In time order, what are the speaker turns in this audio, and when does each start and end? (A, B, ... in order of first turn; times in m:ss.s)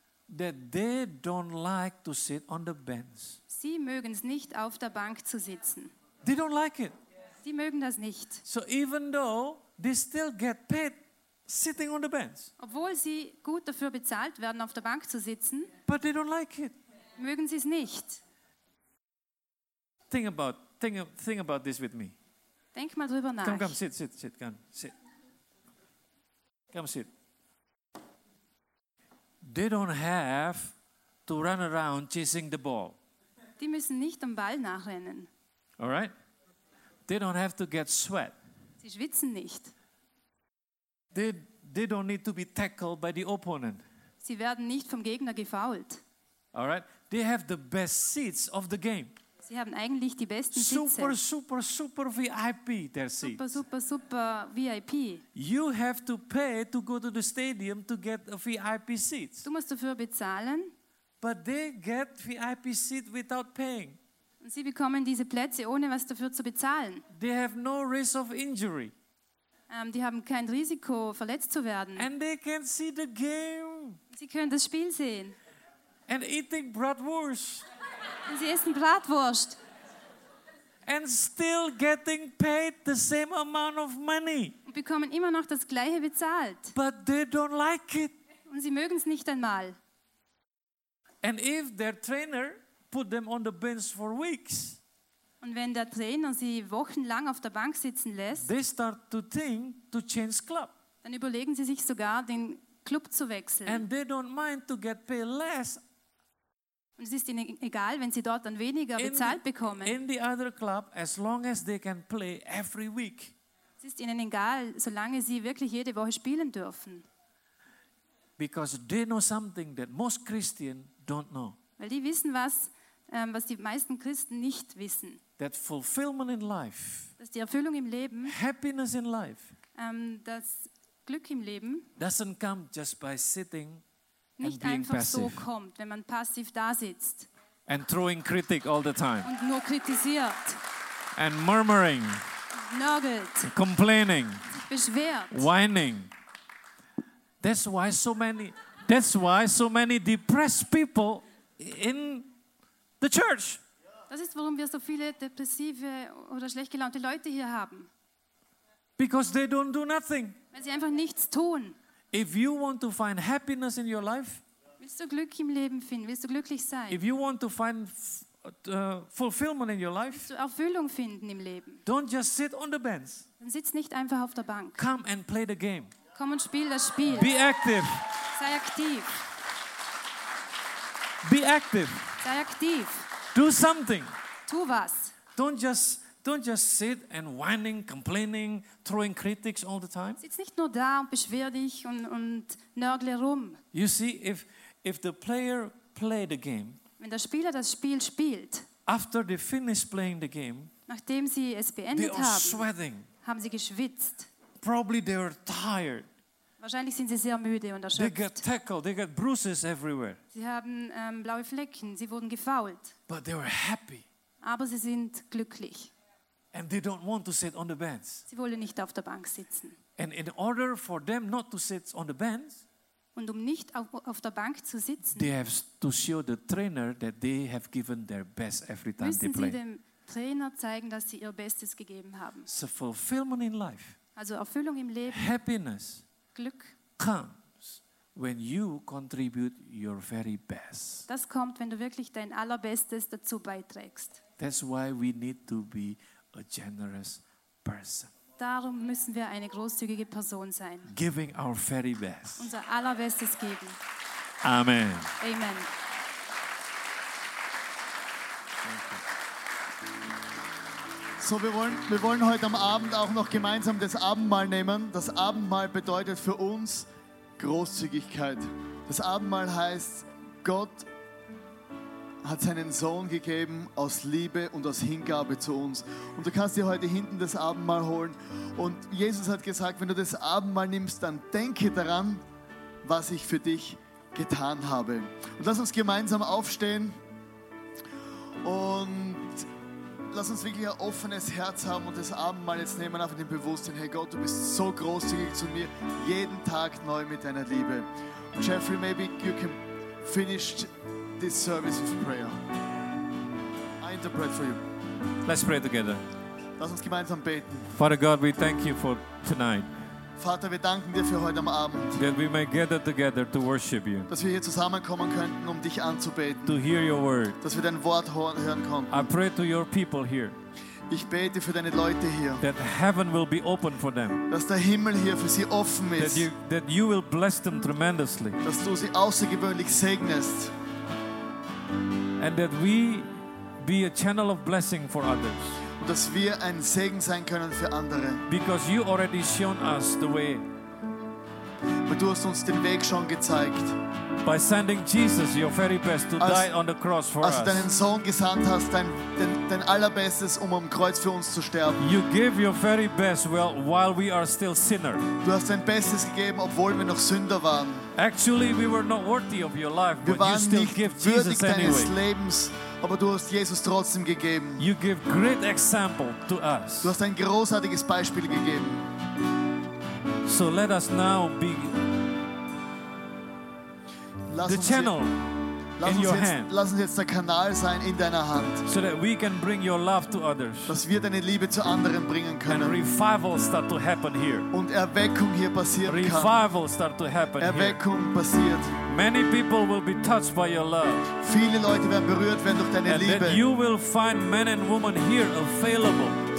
0:00.3-0:03.4 A
0:03.5-0:05.9 B
0:06.2-0:07.0 A
0:07.4-0:08.4 B
0:08.4-0:12.5 A
0:12.6-0:15.7 B
0:15.8-0:16.8 A
0:17.2-0:18.2 B
0:20.1-0:22.1 A
0:22.7-0:23.8 B
0:23.4-0:24.9 A
0:26.7-0:27.1 A
0:29.4-0:30.7 A
0:31.2-0:33.0 A
0:33.6-0:35.3 B
0:35.8-0:36.1 A
0:37.1-0:38.4 A
0:38.8-0:39.7 B
0:41.1-0:43.8 A
0:44.2-0:46.0 B
0:46.5-0:49.2 A
0:49.4-0:51.2 B
0:50.5-0:53.6 A
0:53.2-0:55.2 B
0:55.3-0:59.5 A
0:59.4-1:00.7 B
1:01.2-1:04.0 A
1:04.4-1:07.0 B
1:07.1-1:08.9 A
1:09.7-1:12.1 B
1:12.0-1:14.0 A
1:14.1-1:15.4 B
1:16.1-1:17.7 A
1:18.2-1:19.6 B
1:20.8-1:24.6 A
1:24.6-1:26.8 B
1:26.7-1:28.1 A
1:28.5-1:29.8 B
1:31.2-1:34.8 A
1:35.4-1:38.5 B
1:38.3-1:40.7 A
1:41.0-1:43.8 B
1:43.6-1:45.8 A
1:47.0-1:50.0 B
1:49.0-1:53.3 A
1:53.8-1:57.0 B
1:58.4-2:01.6 A
2:01.8-2:05.2 B
2:05.4-2:07.1 A
2:07.2-2:08.4 B
2:08.2-2:09.5 A
2:09.7-2:11.9 B
2:12.0-2:13.8 A
2:14.4-2:17.3 B
2:14.4-2:15.5 A
2:17.6-2:19.3 A
2:19.2-2:20.6 B
2:21.1-2:22.2 A
2:22.5-2:23.5 B
2:23.4-2:24.5 A
2:24.5-2:25.5 B
2:25.3-2:26.1 A
2:27.4-2:32.3 A
2:33.0-2:33.6 A
2:34.1-2:37.9 B
2:39.0-2:40.4 A
2:40.5-2:41.8 B
2:42.1-2:44.4 A
2:44.8-2:47.0 B
2:46.9-2:50.3 A
2:50.1-2:51.8 B
2:51.8-2:53.3 A
2:53.4-2:54.8 B
2:54.8-2:55.9 A
2:56.2-2:57.3 B
2:57.0-2:58.1 A
2:58.3-2:59.2 B
3:01.2-3:02.2 A
3:02.2-3:03.1 B
3:03.3-3:04.1 A
3:04.4-3:05.2 B
3:05.3-3:10.2 A
3:10.2-3:13.6 B
3:13.7-3:16.8 A
3:17.0-3:18.7 B
3:18.8-3:20.7 A
3:20.9-3:22.6 B
3:21.9-3:23.1 A
3:23.2-3:24.3 B
3:24.6-3:26.1 A
3:26.6-3:28.4 B
3:27.9-3:30.2 A
3:30.3-3:33.0 B
3:33.1-3:34.0 A
3:34.4-3:35.9 B
3:36.5-3:38.2 A
3:38.3-3:39.8 B
3:40.0-3:42.6 A
3:43.1-3:45.3 B
3:45.1-3:49.6 A
3:49.0-3:52.5 B
3:52.4-3:54.0 A
3:54.2-3:55.3 B
3:55.1-3:56.0 A
3:56.3-3:56.8 B
3:57.0-4:01.1 A
4:01.1-4:04.2 B
4:04.4-4:08.1 A
4:08.4-4:10.9 B
4:10.9-4:12.5 A
4:12.4-4:13.8 B
4:14.4-4:15.2 A
4:15.2-4:15.7 B
4:18.6-4:19.0 A
4:21.2-4:26.9 C
4:27.4-4:30.9 C
4:32.2-4:42.2 C
4:42.8-4:47.0 C
4:48.4-4:49.4 C
4:50.1-5:02.4 C
5:03.8-5:04.6 C
5:05.2-5:06.0 A
5:06.6-5:07.7 C
5:07.7-5:09.7 A
5:10.2-5:12.0 C
5:12.0-5:14.1 A
5:14.1-5:16.6 C
5:16.4-5:17.4 A
5:17.4-5:19.1 C
5:18.9-5:20.4 A
5:20.9-5:22.4 C
5:22.4-5:24.2 A
5:24.3-5:26.3 C
5:26.0-5:28.4 A
5:28.4-5:30.5 C
5:32.2-5:35.6 A
5:35.8-5:38.2 C
5:38.3-5:40.5 A
5:41.8-5:43.8 C
5:44.2-5:47.7 A
5:46.2-5:46.5 C
5:47.2-5:51.8 C
5:51.8-5:55.1 A
5:55.2-5:57.9 C
5:57.9-6:01.9 A
6:00.0-6:04.7 C
6:04.6-6:06.9 A
6:06.8-6:08.8 C
6:10.2-6:11.8 A
6:14.3-6:14.9 C
6:14.4-6:15.2 A
6:15.8-6:18.6 C
6:15.8-6:16.5 A
6:18.6-6:20.8 A
6:20.7-6:22.8 C
6:22.4-6:24.5 A
6:24.5-6:26.3 C
6:25.8-6:27.8 A
6:27.4-6:28.7 C
6:28.9-6:31.1 A
6:31.2-6:33.4 C
6:32.8-6:36.2 A